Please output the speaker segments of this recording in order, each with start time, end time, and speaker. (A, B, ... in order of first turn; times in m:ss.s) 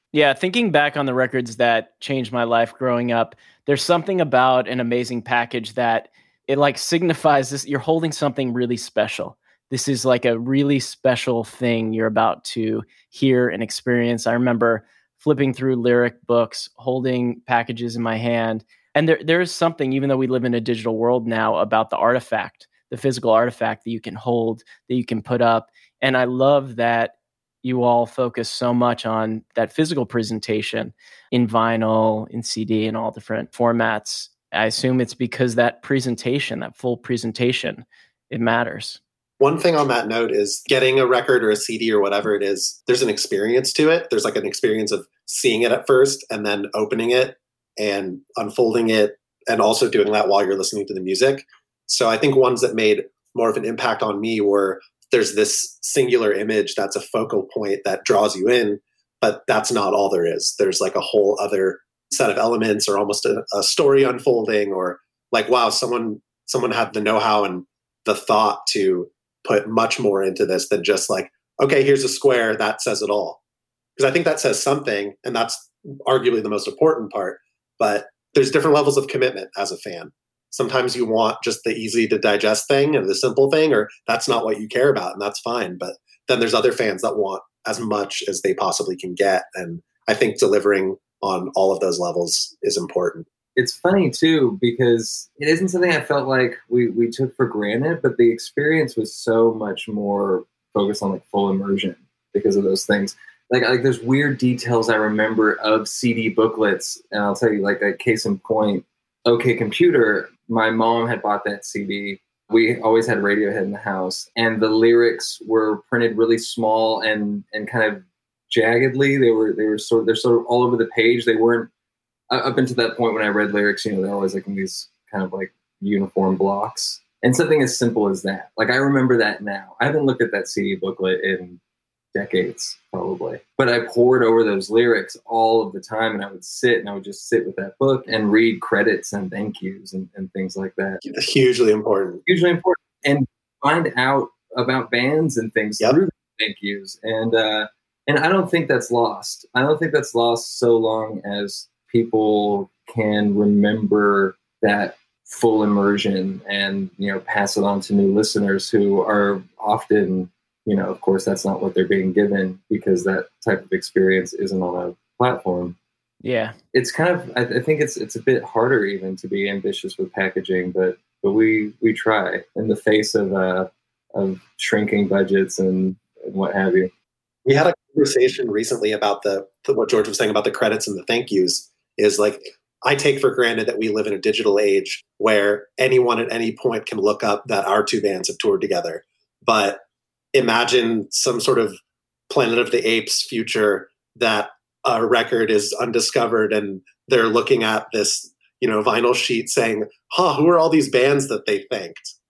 0:00.1-0:27.1 A
0:27.6-0:39.0 A
0:39.4-1:13.4 B
1:14.0-1:33.3 B
1:33.6-2:01.7 C
2:02.3-2:11.6 C
2:12.1-2:21.0 C
2:21.0-2:22.2 B
2:22.3-2:45.8 C
2:46.2-2:46.6 A
2:46.7-2:56.9 C
2:57.5-3:09.8 B
3:10.3-3:11.8 B
3:12.3-3:22.1 B